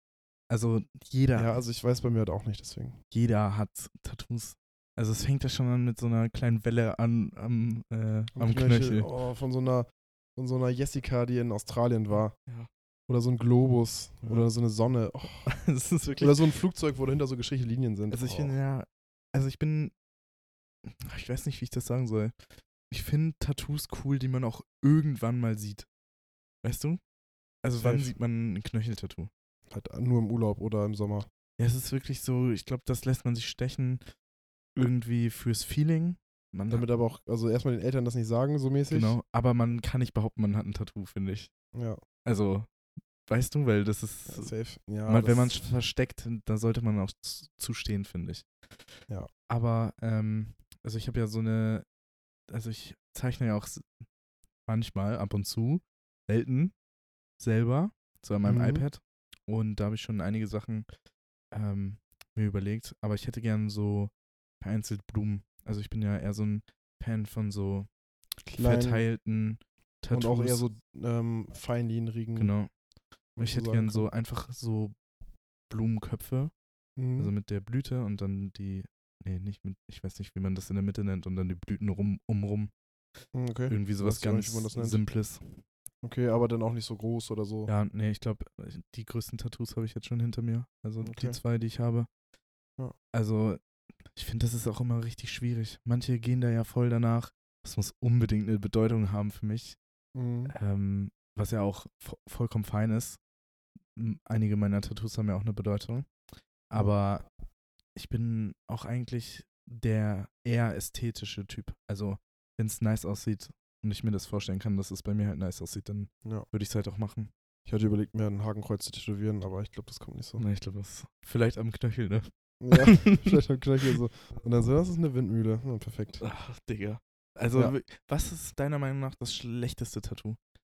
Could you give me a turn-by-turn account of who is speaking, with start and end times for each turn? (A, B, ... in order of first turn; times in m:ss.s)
0:00.5-0:01.6 A
0:01.4-0:03.0 B
0:03.1-0:09.1 A
0:08.4-0:12.4 B
0:13.1-0:15.5 B
0:15.5-0:16.4 A
0:16.2-0:18.6 B
0:18.1-0:19.9 A
0:20.8-0:22.3 A
0:22.9-0:25.9 A
0:26.6-0:27.0 A
0:27.6-0:29.3 A
0:27.8-0:28.1 B
0:29.7-0:31.3 B
0:31.6-0:34.0 A
0:34.8-0:36.8 A
0:36.7-0:39.2 B
0:38.9-0:41.5 A
0:41.7-0:42.0 B
0:42.2-0:42.7 A
0:43.3-0:44.5 A
0:44.3-0:45.6 B
0:45.1-0:48.5 A
0:49.5-0:51.8 A
0:52.5-0:53.9 A
0:54.7-0:56.7 A
0:57.4-1:00.9 A
0:58.4-0:58.8 B
1:01.5-1:07.9 A
1:08.5-1:09.0 B
1:08.6-1:10.6 A
1:10.1-1:12.5 B
1:12.4-1:12.7 A
1:13.4-1:14.1 B
1:13.4-1:15.0 A
1:15.7-1:16.5 A
1:17.0-1:17.3 B
1:17.2-1:22.7 A
1:23.3-1:25.0 B
1:23.7-1:25.6 A
1:26.0-1:27.7 B
1:27.7-1:32.1 A
1:31.0-1:31.4 B
1:33.1-1:33.6 A
1:34.1-1:39.8 A
1:40.2-1:40.5 B
1:40.5-1:43.2 A
1:44.0-1:46.1 A
1:46.7-1:47.3 A
1:48.0-1:57.3 A
1:57.7-2:00.4 B
2:00.4-2:03.4 A
2:02.6-2:06.2 B
2:06.2-2:10.4 A